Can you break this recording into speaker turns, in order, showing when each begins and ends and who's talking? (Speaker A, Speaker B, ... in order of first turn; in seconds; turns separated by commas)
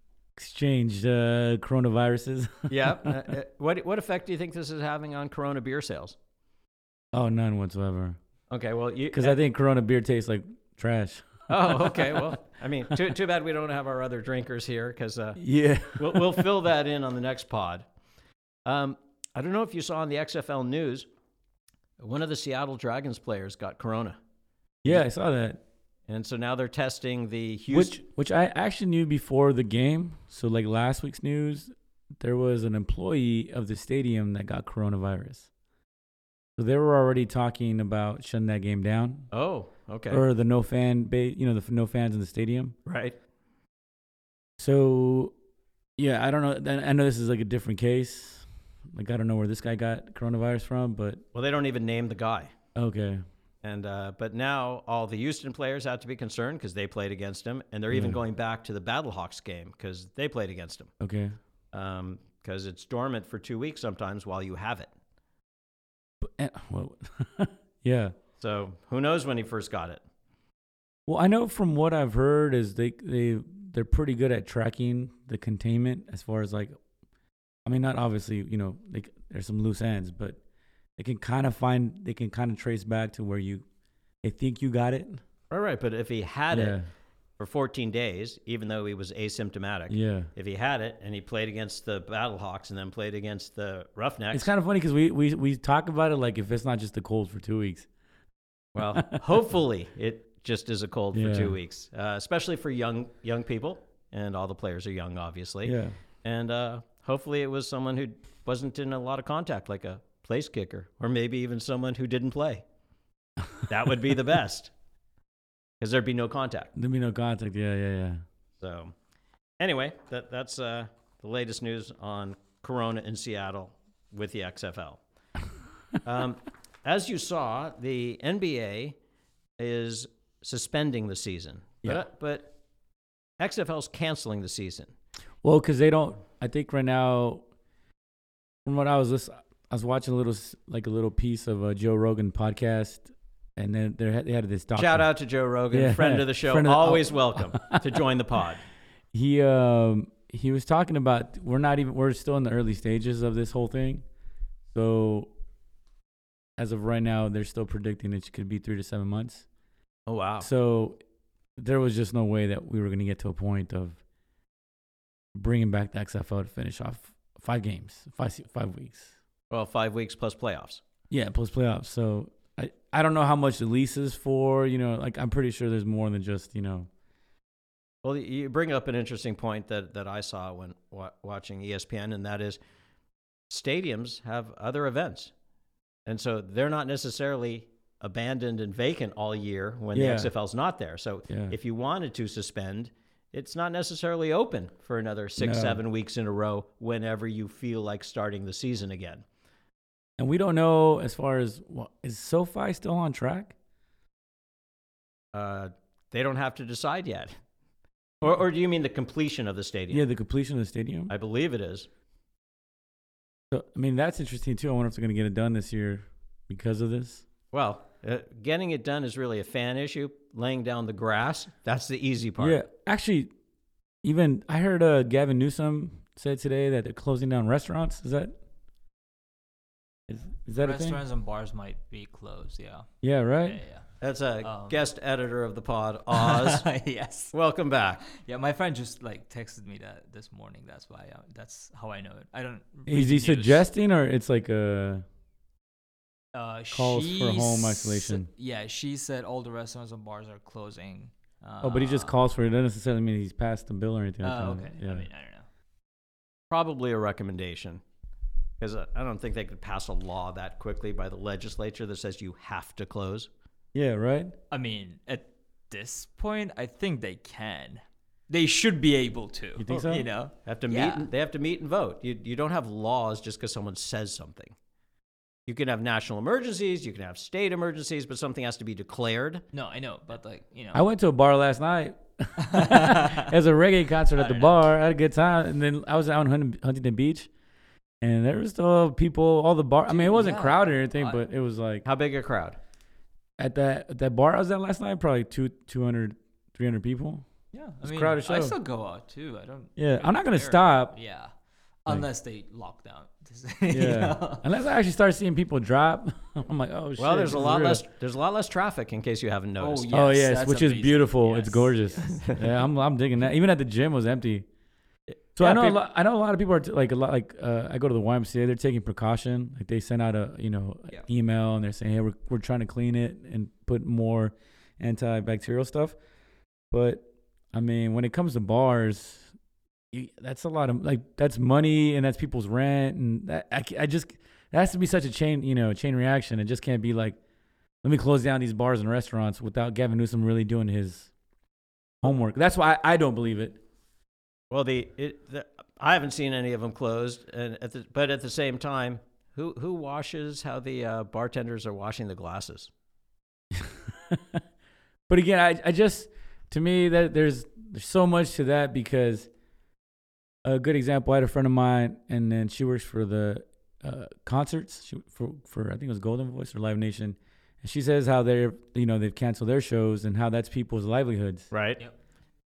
Speaker A: 0.4-3.1, Speaker B: 2.7-6.2, Speaker A: 7.1-8.2, Speaker B: 8.5-9.4, Speaker A: 9.1-12.2, Speaker B: 11.5-15.4, Speaker A: 15.4-16.4, Speaker B: 15.9-17.9, Speaker B: 18.7-21.1, Speaker B: 22.0-24.2, Speaker A: 24.8-25.6, Speaker B: 26.1-28.0, Speaker A: 27.7-35.5, Speaker A: 36.6-39.3, Speaker B: 39.3-40.2, Speaker A: 40.1-42.8, Speaker B: 42.9-43.2, Speaker A: 44.6-45.3, Speaker A: 46.0-51.2, Speaker B: 51.3-52.5, Speaker A: 52.8-53.2, Speaker B: 53.6-60.9, Speaker A: 57.9-58.2, Speaker A: 61.0-61.4, Speaker B: 61.7-64.9, Speaker A: 66.2-68.1, Speaker B: 68.4-70.0, Speaker A: 71.1-76.8, Speaker A: 77.7-80.4, Speaker A: 81.0-83.7, Speaker A: 84.2-85.2, Speaker B: 85.5-86.8, Speaker A: 86.5-86.9, Speaker B: 87.4-94.5, Speaker A: 89.9-90.3, Speaker A: 94.3-97.9, Speaker B: 98.8-112.6, Speaker A: 98.8-99.2, Speaker A: 101.1-101.5, Speaker A: 105.7-106.0, Speaker B: 113.7-114.7, Speaker B: 115.8-116.7, Speaker A: 116.8-118.2, Speaker B: 118.6-118.9, Speaker B: 119.6-125.0, Speaker B: 126.0-129.0, Speaker B: 129.6-132.5, Speaker B: 133.4-134.9, Speaker A: 135.4-137.4, Speaker A: 138.7-145.1, Speaker B: 144.8-148.6, Speaker A: 145.7-148.0, Speaker A: 149.1-154.0, Speaker A: 154.7-155.3, Speaker A: 156.6-159.4, Speaker B: 160.1-160.5, Speaker A: 160.4-161.0, Speaker A: 161.6-164.0, Speaker A: 165.3-169.1, Speaker B: 169.5-170.8, Speaker A: 171.1-176.9, Speaker B: 178.0-182.6, Speaker B: 183.5-185.3, Speaker B: 186.1-199.2, Speaker A: 189.9-190.3, Speaker A: 191.3-191.6, Speaker A: 195.4-195.8, Speaker A: 200.2-203.6, Speaker B: 205.3-207.3, Speaker B: 208.2-210.0, Speaker A: 209.9-211.1, Speaker B: 211.1-211.9, Speaker A: 213.5-217.2, Speaker B: 217.5-222.6, Speaker A: 222.4-223.3, Speaker A: 224.0-228.3, Speaker A: 230.1-231.0, Speaker C: 230.6-232.9, Speaker A: 233.0-233.6, Speaker C: 233.4-233.9, Speaker B: 234.0-236.7, Speaker C: 234.4-234.8, Speaker C: 236.1-237.3, Speaker B: 237.3-238.0, Speaker C: 238.1-243.6, Speaker A: 242.9-245.0, Speaker C: 246.3-252.2, Speaker A: 246.7-248.3, Speaker A: 251.6-255.1, Speaker C: 254.2-255.5, Speaker B: 256.5-257.8, Speaker B: 258.6-263.3, Speaker A: 263.7-264.4, Speaker C: 264.5-271.1, Speaker A: 269.6-270.1, Speaker B: 270.4-274.6, Speaker B: 275.5-279.4, Speaker C: 279.5-280.8, Speaker A: 280.7-287.3, Speaker C: 282.4-283.3, Speaker C: 284.1-284.6, Speaker A: 288.0-291.9, Speaker C: 289.9-291.2, Speaker B: 291.9-292.6, Speaker A: 293.4-297.2, Speaker C: 297.5-301.3, Speaker A: 297.8-298.6, Speaker A: 299.8-300.9, Speaker C: 301.9-304.5, Speaker A: 303.7-307.8, Speaker B: 307.0-309.9, Speaker C: 309.6-312.5, Speaker A: 309.9-314.5, Speaker B: 315.1-315.8, Speaker A: 315.4-325.9, Speaker A: 326.7-329.3, Speaker A: 329.9-337.2, Speaker A: 337.8-341.1, Speaker A: 342.0-343.6, Speaker B: 344.5-352.7, Speaker A: 353.6-354.4, Speaker A: 355.1-359.3, Speaker A: 360.4-371.5, Speaker B: 371.5-371.8